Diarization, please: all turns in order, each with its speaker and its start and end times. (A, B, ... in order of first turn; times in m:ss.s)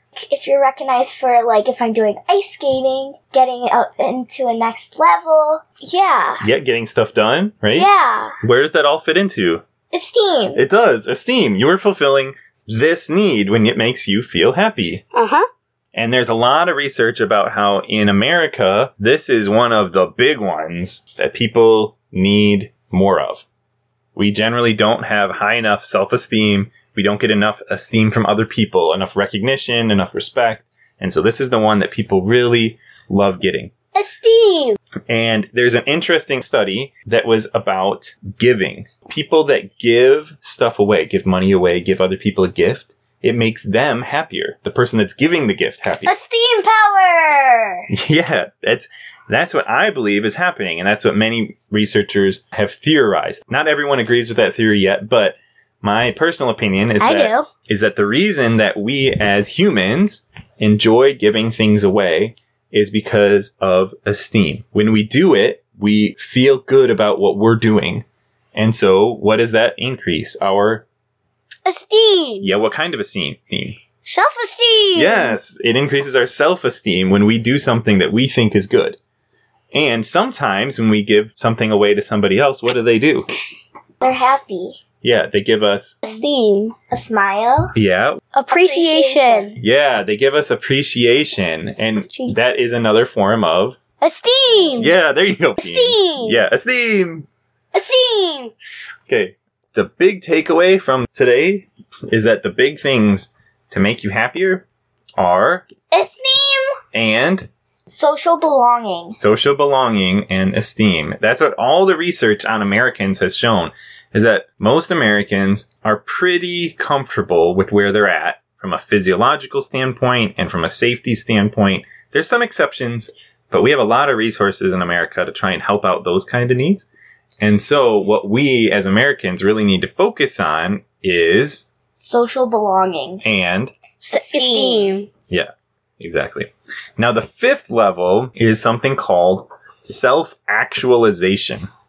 0:00.2-0:06.4 A
0:06.4-0:07.9 B
0:07.7-0:08.3 A
0:08.4-0:09.6 B
0:09.9-0:10.6 A
0:10.5-0:15.1 B
0:15.1-0:15.4 C
0:16.0-0:23.4 B
0:24.2-0:33.7 B
0:33.9-0:34.8 C
0:35.1-0:46.2 B
0:46.0-0:47.9 C
0:47.9-1:10.9 B
0:57.0-0:57.5 C
1:11.6-1:12.5 C
1:12.4-1:13.8 B
1:14.0-1:15.4 C
1:15.0-1:19.0 B
1:19.7-1:23.3 B
1:24.0-1:24.8 A
1:25.0-1:26.0 B
1:26.0-1:26.8 C
1:26.9-1:27.8 A
1:27.8-1:28.2 B
1:28.3-1:29.6 C
1:28.5-1:29.6 A
1:29.6-1:33.8 B
1:32.1-1:32.4 C
1:34.0-1:35.0 C
1:34.8-1:37.3 B
1:35.6-1:36.4 C
1:37.7-1:38.5 C
1:39.1-1:44.6 B
1:45.2-1:45.7 B
1:45.9-1:46.7 C
1:46.9-1:47.5 B
1:47.9-1:49.2 A
1:49.2-2:06.9 B
2:07.4-2:11.7 B
2:12.0-2:13.2 A
2:13.2-2:13.8 B
2:14.0-2:15.1 C
2:14.1-2:14.9 A
2:15.3-2:21.7 B